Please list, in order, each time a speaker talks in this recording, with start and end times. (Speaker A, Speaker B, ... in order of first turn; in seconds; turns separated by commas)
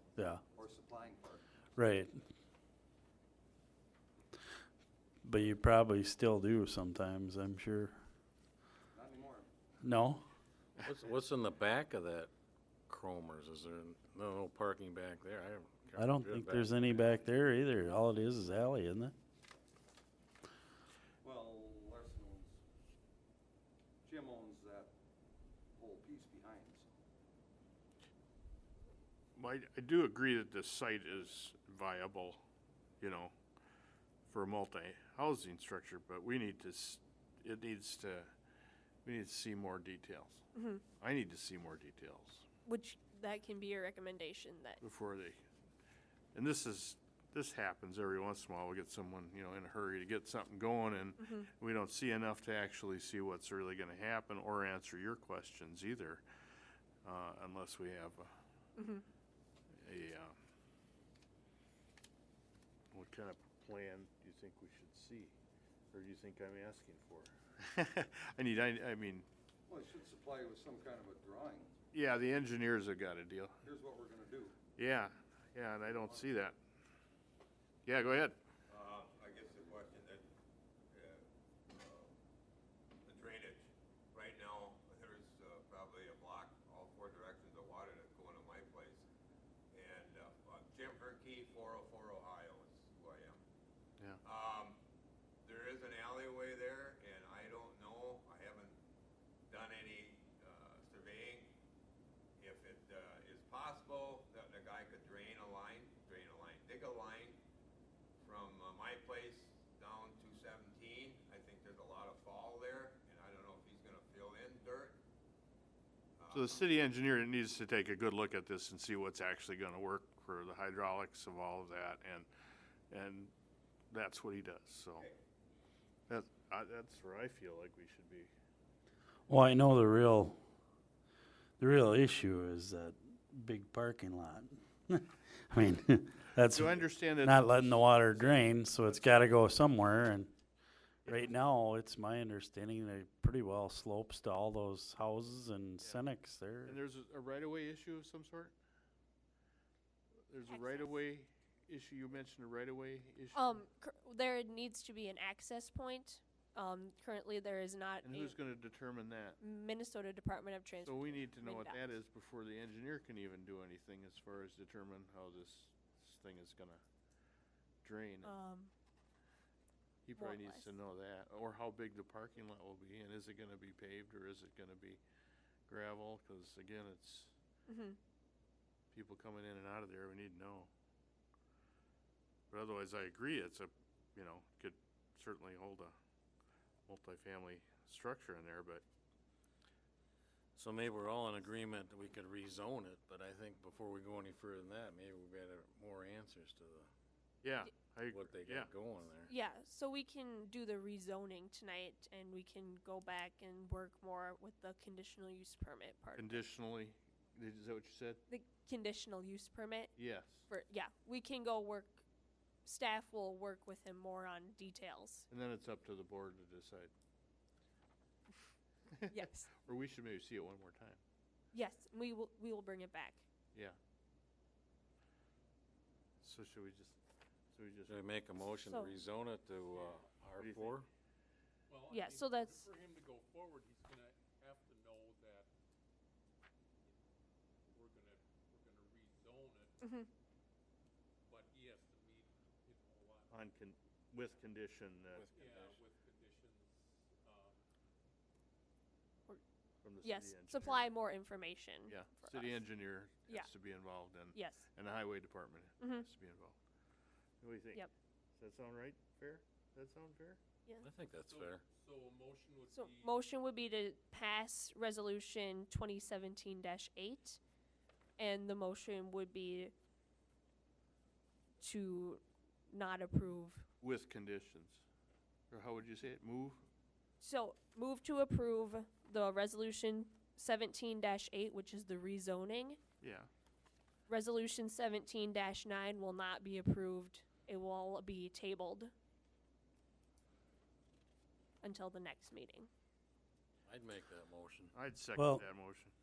Speaker A: 0.1-0.4, Speaker B: 0.5-1.5, Speaker A: 1.8-2.2, Speaker A: 5.2-8.0, Speaker B: 8.9-9.5, Speaker A: 9.8-10.2, Speaker C: 10.8-12.3, Speaker C: 12.9-17.2, Speaker A: 16.0-19.1, Speaker B: 21.2-22.6, Speaker B: 24.0-24.9, Speaker B: 25.7-26.9, Speaker D: 29.4-32.4, Speaker D: 33.0-33.3, Speaker D: 34.3-38.3, Speaker D: 39.0-40.4, Speaker E: 40.5-40.8, Speaker D: 41.0-42.5, Speaker E: 42.6-44.8, Speaker D: 44.8-45.4, Speaker D: 46.3-56.2, Speaker E: 51.2-51.5, Speaker D: 57.0-58.3, Speaker E: 58.8-59.0, Speaker D: 59.8-60.4, Speaker D: 62.9-65.3, Speaker D: 65.9-69.3, Speaker B: 69.7-71.8, Speaker D: 71.9-73.6, Speaker B: 73.6-74.6, Speaker D: 74.8-76.6, Speaker B: 75.9-76.2, Speaker D: 77.8-78.4, Speaker F: 78.7-80.3, Speaker F: 80.9-82.1, Speaker F: 83.0-89.0, Speaker F: 89.7-93.4, Speaker F: 94.2-94.8, Speaker F: 95.4-98.8, Speaker F: 99.5-101.5, Speaker F: 102.4-107.4, Speaker F: 108.2-115.0, Speaker F: 116.2-116.7, Speaker D: 116.3-122.3, Speaker D: 122.9-123.3, Speaker D: 123.9-125.1, Speaker D: 126.1-128.3, Speaker A: 129.3-130.4, Speaker A: 131.6-140.3, Speaker D: 136.4-139.2, Speaker A: 141.0-146.8, Speaker D: 146.6-148.5, Speaker D: 150.3-153.6, Speaker E: 150.4-151.0, Speaker E: 153.3-158.4, Speaker D: 158.0-159.4, Speaker E: 159.4-161.9, Speaker D: 160.8-166.8, Speaker D: 167.8-168.3, Speaker E: 168.2-168.7, Speaker D: 170.1-175.0, Speaker E: 170.1-170.7, Speaker D: 175.7-177.3, Speaker E: 177.7-178.0, Speaker D: 178.9-180.7, Speaker D: 182.5-185.9, Speaker D: 186.9-188.8, Speaker C: 190.6-196.9, Speaker D: 197.4-198.7, Speaker C: 198.1-199.3, Speaker E: 199.2-206.4, Speaker D: 206.2-208.2, Speaker E: 208.3-212.0, Speaker D: 210.0-210.5, Speaker E: 212.6-215.3, Speaker D: 215.3-216.9, Speaker D: 218.9-221.0, Speaker E: 219.1-219.5, Speaker E: 221.5-223.2, Speaker D: 223.5-223.8, Speaker D: 226.2-227.0, Speaker D: 227.5-228.0, Speaker C: 227.9-230.9, Speaker E: 228.6-228.9, Speaker G: 229.7-230.0, Speaker D: 230.3-230.8, Speaker G: 231.7-235.5, Speaker E: 231.9-232.7, Speaker G: 237.7-239.8, Speaker E: 239.8-240.1, Speaker G: 241.2-243.3, Speaker D: 243.3-245.3, Speaker C: 245.1-245.8, Speaker G: 245.3-247.6, Speaker D: 249.8-250.9, Speaker E: 250.0-253.5, Speaker D: 251.9-256.6, Speaker E: 254.3-254.7, Speaker E: 255.8-256.1, Speaker D: 257.4-260.4, Speaker C: 260.8-261.6, Speaker G: 261.2-263.1, Speaker E: 262.7-267.4, Speaker E: 268.2-269.7, Speaker E: 271.6-273.7, Speaker D: 273.8-274.8, Speaker D: 275.5-276.6, Speaker E: 277.2-282.8, Speaker D: 283.0-283.3, Speaker E: 284.1-288.9, Speaker E: 291.6-292.7, Speaker C: 293.6-294.7, Speaker D: 294.7-295.9, Speaker A: 295.1-295.4